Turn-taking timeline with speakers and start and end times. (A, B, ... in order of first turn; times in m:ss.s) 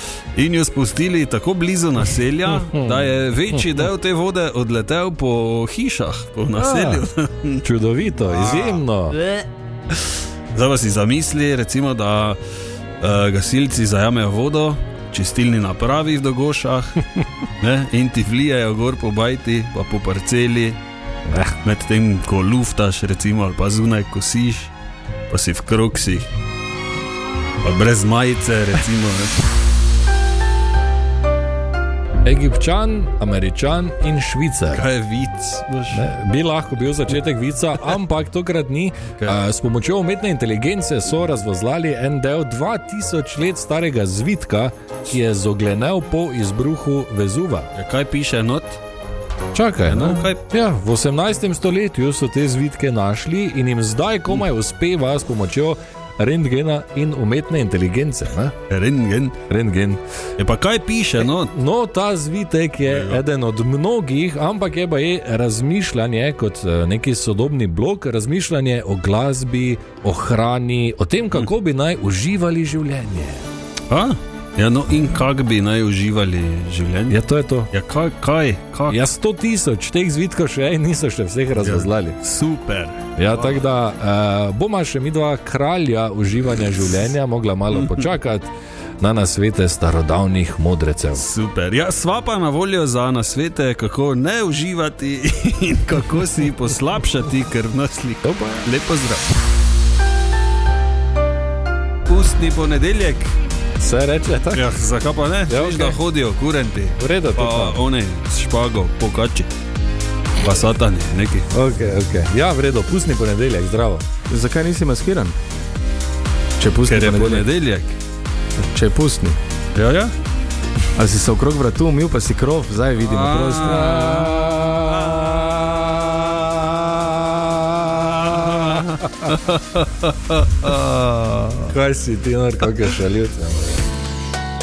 0:00.4-0:07.6 A
0:02.5-0:03.7 B
0:06.6-0:07.1 B
0:07.6-0:09.2 B
0:08.3-0:12.4 A
0:13.0-0:17.0 A
0:17.6-0:20.8 A
0:21.3-0:21.6 B
0:21.6-0:24.7 A
0:25.3-0:26.3 A
0:27.6-0:29.4 A
0:32.2-0:34.9 B
0:34.7-0:36.0 A
0:35.9-0:47.7 B
0:47.8-0:48.8 A
0:49.5-0:58.6 B
0:49.9-0:50.4 A
0:58.7-0:59.4 A
0:59.5-1:00.0 B
1:00.4-1:01.5 A
1:01.2-1:13.4 B
1:02.9-1:03.2 A
1:13.9-1:17.2 A
1:17.1-1:17.7 B
1:17.7-1:19.0 A
1:18.9-1:22.2 B
1:21.6-1:23.0 A
1:23.2-1:28.5 B
1:27.7-1:28.0 A
1:29.0-1:31.3 B
1:31.2-1:39.3 A
1:38.2-1:38.7 B
1:42.1-1:43.3 A
1:43.8-1:44.7 B
1:44.5-1:49.5 A
1:45.5-1:46.0 B
1:47.0-1:47.8 B
1:50.4-1:51.5 A
1:51.5-1:54.0 B
1:54.3-1:55.4 C
1:56.6-1:57.5 C
1:56.8-1:58.0 A
1:58.7-1:59.4 C
1:59.8-2:00.1 A
2:01.0-2:03.8 C
2:03.0-2:05.4 A
2:03.6-2:09.3 B
2:08.2-2:11.6 A
2:11.7-2:13.8 B